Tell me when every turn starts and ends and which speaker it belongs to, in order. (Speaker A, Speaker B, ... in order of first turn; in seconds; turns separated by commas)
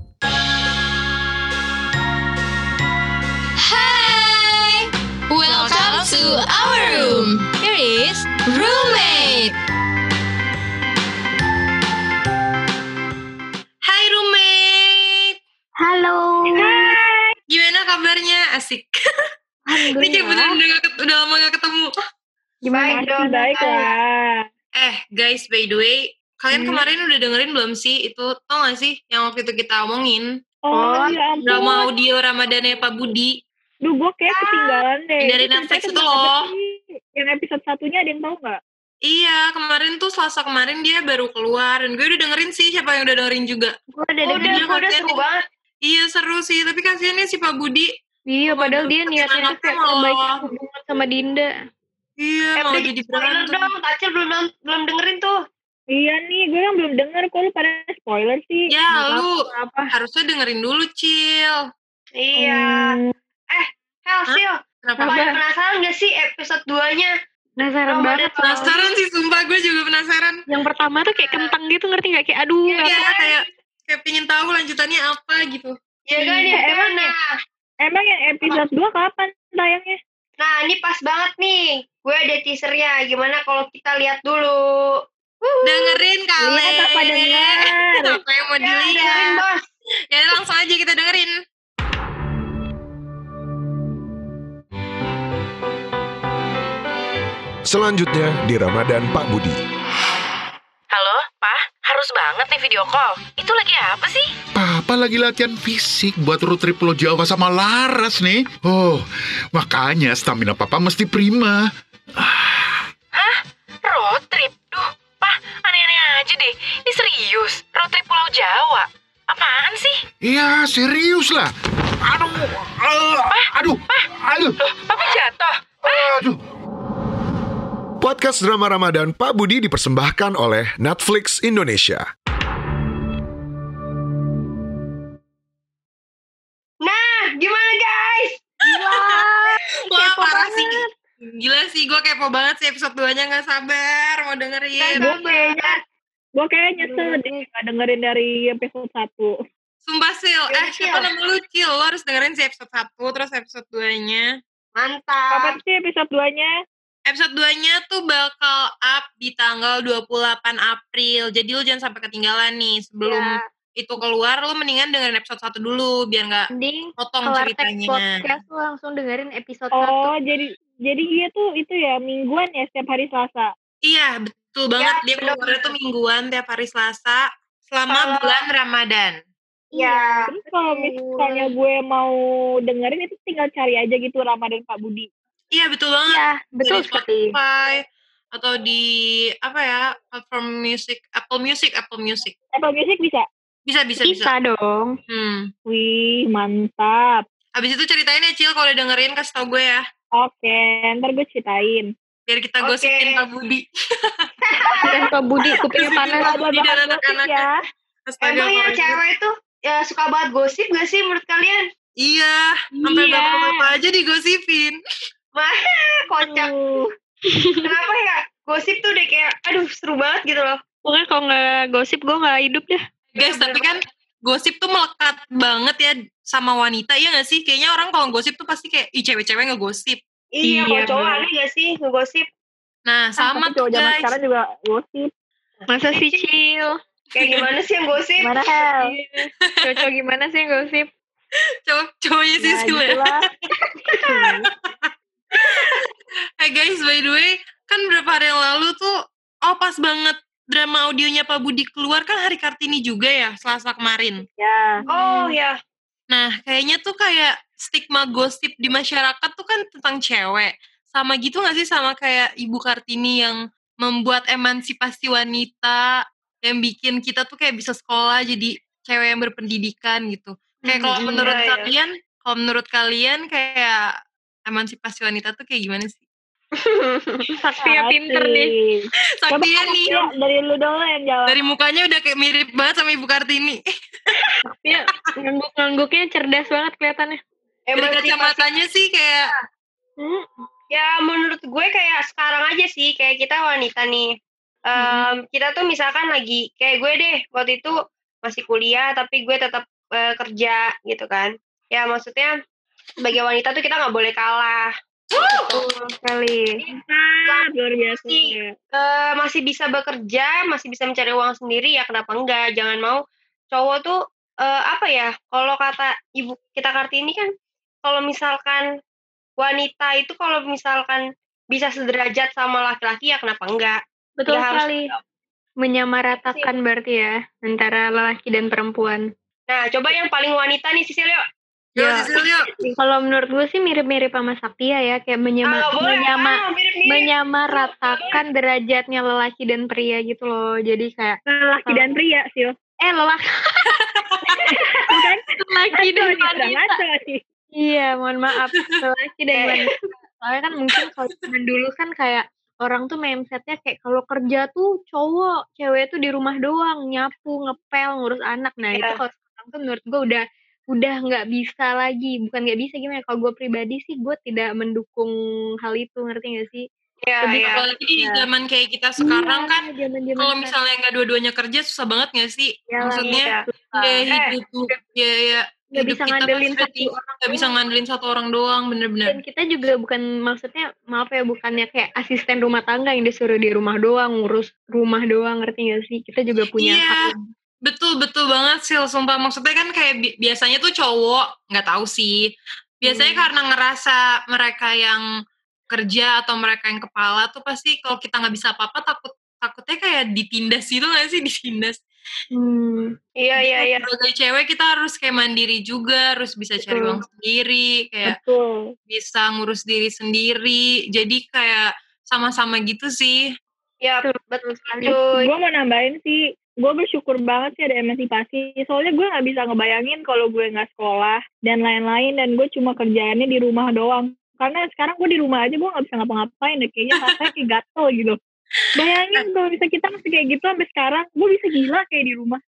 Speaker A: 3.6-9.6, Speaker B: 5.5-6.5, Speaker C: 13.8-15.3, Speaker D: 15.8-17.0, Speaker E: 16.5-17.3, Speaker C: 17.5-18.9, Speaker D: 19.7-20.6, Speaker C: 19.9-21.9, Speaker D: 22.6-23.9, Speaker F: 22.7-23.9, Speaker E: 22.9-24.4, Speaker C: 24.8-30.2, Speaker E: 30.6-31.9, Speaker D: 30.7-31.1, Speaker C: 31.4-33.3, Speaker E: 33.8-38.6, Speaker F: 34.3-34.8, Speaker C: 35.2-36.5, Speaker C: 39.0-43.7, Speaker D: 43.9-44.6, Speaker F: 44.2-45.4, Speaker C: 44.3-45.2, Speaker C: 45.8-47.9, Speaker D: 48.3-51.5, Speaker C: 48.5-50.4, Speaker C: 52.2-53.7, Speaker F: 52.6-55.4, Speaker E: 55.9-58.7, Speaker C: 58.7-61.6, Speaker D: 58.9-59.9, Speaker F: 62.1-63.0, Speaker D: 62.4-62.9, Speaker F: 63.5-67.1, Speaker C: 64.3-65.2, Speaker D: 65.0-65.3, Speaker D: 67.6-68.7, Speaker F: 67.9-68.9, Speaker C: 68.4-70.4, Speaker D: 70.5-73.0, Speaker F: 71.2-71.5, Speaker F: 72.6-73.5, Speaker C: 72.8-75.8, Speaker F: 76.1-77.3, Speaker E: 76.2-77.1, Speaker E: 77.8-80.0, Speaker F: 80.4-85.0, Speaker C: 85.6-89.4, Speaker E: 86.4-88.2, Speaker F: 88.6-89.7, Speaker C: 90.1-91.3, Speaker G: 97.6-99.6, Speaker B: 100.9-104.3, Speaker H: 104.5-112.9, Speaker B: 113.1-120.0, Speaker H: 120.2-121.5, Speaker H: 122.0-124.6, Speaker B: 123.3-124.0, Speaker B: 124.6-126.1, Speaker H: 125.8-126.4, Speaker G: 128.0-132.1, Speaker F: 136.8-139.2, Speaker C: 138.7-139.2, Speaker D: 138.8-139.3, Speaker C: 139.9-145.0, Speaker D: 139.9-140.8, Speaker F: 144.8-145.7, Speaker E: 145.0-145.8, Speaker E: 146.3-149.3, Speaker D: 146.8-147.4, Speaker C: 149.8-154.3, Speaker F: 150.5-151.1, Speaker F: 154.8-155.6, Speaker E: 155.3-156.5, Speaker C: 157.1-168.2, Speaker D: 163.0-163.4, Speaker D: 166.5-170.1, Speaker E: 169.7-173.5, Speaker C: 173.8-179.2, Speaker F: 174.8-175.7, Speaker F: 177.9-178.4, Speaker D: 179.7-181.4, Speaker F: 179.7-180.3, Speaker E: 180.2-185.1, Speaker C: 185.5-192.3, Speaker D: 186.1-187.3, Speaker E: 192.5-193.2, Speaker C: 193.7-194.3, Speaker D: 194.0-194.9, Speaker C: 195.1-195.5, Speaker E: 195.7-197.2, Speaker C: 197.6-199.8, Speaker E: 200.2-201.9, Speaker C: 202.3-204.3, Speaker F: 202.6-203.2, Speaker F: 204.5-205.1, Speaker D: 204.8-206.3, Speaker C: 205.7-207.4, Speaker E: 205.8-207.6, Speaker C: 208.1-209.0, Speaker F: 208.2-211.7, Speaker C: 212.0-214.8, Speaker D: 212.7-213.7, Speaker F: 215.3-216.5, Speaker E: 216.2-216.9, Speaker D: 217.3-217.7, Speaker F: 217.6-220.6, Speaker D: 220.8-223.5, Speaker C: 223.1-230.0, Speaker F: 230.3-232.3, Speaker D: 230.4-231.2, Speaker C: 232.8-234.1, Speaker E: 233.2-235.1, Speaker D: 235.7-236.8, Speaker F: 237.1-238.3, Speaker D: 238.2-240.9, Speaker E: 238.4-238.9, Speaker C: 239.5-239.8, Speaker C: 241.7-243.3, Speaker E: 242.4-243.3, Speaker C: 244.4-245.8, Speaker C: 246.4-248.9, Speaker C: 249.4-254.2, Speaker E: 254.4-254.8, Speaker D: 254.8-255.3, Speaker F: 254.9-255.6, Speaker C: 256.1-265.9, Speaker C: 266.4-273.9, Speaker D: 270.7-271.3, Speaker F: 270.9-271.7, Speaker C: 274.5-276.0, Speaker F: 276.6-277.3, Speaker D: 277.4-278.5, Speaker E: 277.6-281.4, Speaker C: 279.2-280.1, Speaker C: 281.3-283.6, Speaker D: 284.4-287.2, Speaker F: 287.7-288.4, Speaker C: 287.8-289.3, Speaker D: 290.0-290.4, Speaker F: 290.7-294.1, Speaker F: 294.7-302.4, Speaker D: 294.8-295.1, Speaker F: 303.0-305.6, Speaker D: 305.5-306.6, Speaker E: 306.7-308.5, Speaker F: 307.3-317.3, Speaker F: 317.8-318.6, Speaker F: 319.4-324.7, Speaker D: 324.2-324.9, Speaker D: 325.6-329.0, Speaker F: 326.2-326.5, Speaker F: 329.5-331.2, Speaker C: 331.8-332.5, Speaker D: 331.8-332.1, Speaker D: 332.8-341.9, Speaker F: 335.4-338.2, Speaker E: 341.3-342.5, Speaker D: 342.8-343.7, Speaker C: 343.9-344.4, Speaker E: 344.4-347.2, Speaker D: 344.4-346.8, Speaker D: 347.5-365.1, Speaker F: 349.3-349.6, Speaker F: 358.7-359.0, Speaker D: 365.6-366.6, Speaker F: 367.0-367.6, Speaker D: 367.2-368.2, Speaker C: 367.4-369.6, Speaker D: 369.0-370.5, Speaker C: 370.2-379.2, Speaker D: 372.7-374.1, Speaker F: 373.0-373.4, Speaker F: 374.1-374.3, Speaker D: 375.7-377.5, Speaker D: 379.1-387.1, Speaker C: 386.6-387.1, Speaker C: 387.6-392.2, Speaker C: 392.8-395.0, Speaker D: 392.8-393.3, Speaker C: 395.7-401.8, Speaker D: 402.3-402.9, Speaker F: 403.2-403.9, Speaker C: 403.4-408.2, Speaker D: 406.6-407.0, Speaker E: 408.0-408.6, Speaker C: 408.9-413.2, Speaker F: 413.8-415.3, Speaker D: 414.0-415.0, Speaker E: 414.9-428.2, Speaker C: 427.0-427.3, Speaker E: 428.7-432.4